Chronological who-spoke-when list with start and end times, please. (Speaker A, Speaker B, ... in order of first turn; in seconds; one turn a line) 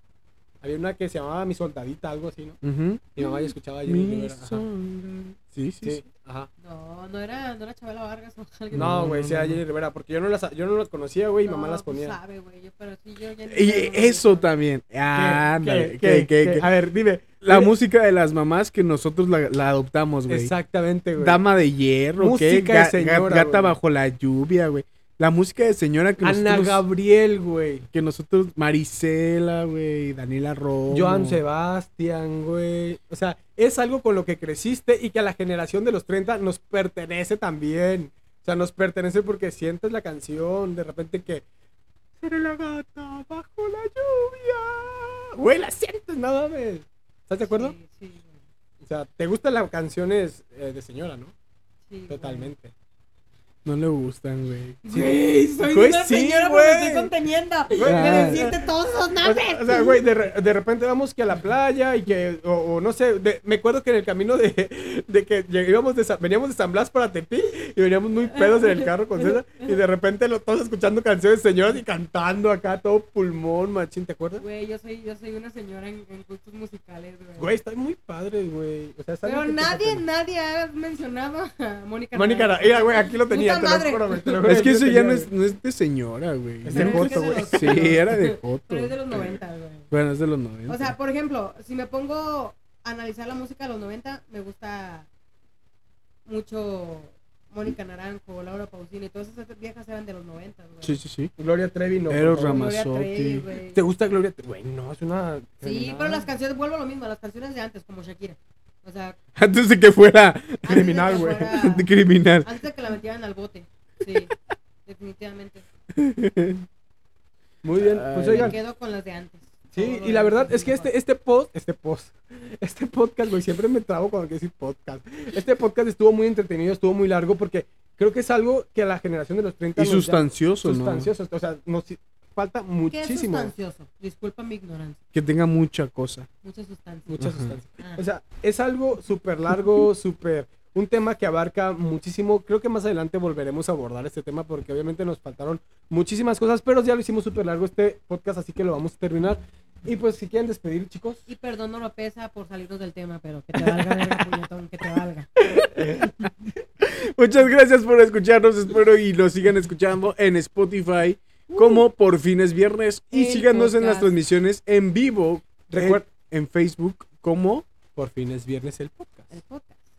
Speaker A: 0.6-2.6
Speaker B: 2.6-3.3
Speaker A: 3.2-4.7
Speaker B: 3.9-6.0
Speaker A: 5.8-6.5
Speaker C: 6.6-9.1
Speaker B: 8.7-9.6
Speaker A: 8.7-12.2
Speaker C: 11.4-14.5
Speaker B: 13.5-16.7
Speaker A: 15.1-17.7
Speaker B: 17.4-20.5
Speaker A: 20.3-21.4
Speaker B: 21.2-26.8
Speaker A: 22.2-23.8
Speaker A: 26.2-27.9
Speaker B: 27.9-31.4
Speaker A: 30.9-41.4
Speaker A: 42.2-47.8
Speaker C: 47.4-48.4
Speaker A: 48.8-51.3
Speaker C: 51.9-52.5
Speaker A: 52.1-52.7
Speaker B: 53.6-54.8
Speaker C: 54.8-60.0
Speaker A: 54.9-57.1
Speaker A: 57.8-58.7
Speaker B: 57.8-58.5
Speaker A: 59.2-74.4
Speaker C: 68.3-69.7
Speaker C: 74.4-77.5
Speaker A: 77.4-80.0
Speaker C: 79.2-84.5
Speaker A: 82.1-85.3
Speaker B: 84.5-89.0
Speaker A: 86.7-88.0
Speaker C: 86.7-89.9
Speaker B: 89.9-90.9
Speaker C: 90.7-95.1
Speaker C: 96.3-101.0
Speaker B: 100.8-101.3
Speaker A: 101.4-102.6
Speaker B: 102.1-103.5
Speaker C: 102.4-103.8
Speaker A: 103.7-106.3
Speaker C: 105.6-109.2
Speaker B: 109.4-112.5
Speaker C: 110.7-111.9
Speaker C: 112.4-114.3
Speaker C: 114.9-115.7
Speaker B: 115.9-116.7
Speaker A: 117.6-118.6
Speaker B: 117.8-118.5
Speaker C: 118.2-120.9
Speaker A: 119.7-133.5
Speaker B: 129.8-131.1
Speaker C: 132.9-135.0
Speaker B: 135.1-136.3
Speaker C: 136.4-137.2
Speaker A: 137.1-151.2
Speaker B: 137.2-137.5
Speaker C: 151.3-155.3
Speaker B: 155.5-156.3
Speaker B: 156.8-167.7
Speaker A: 161.5-161.8
Speaker C: 163.1-164.2
Speaker A: 165.7-166.1
Speaker A: 168.0-169.3
Speaker C: 169.3-169.8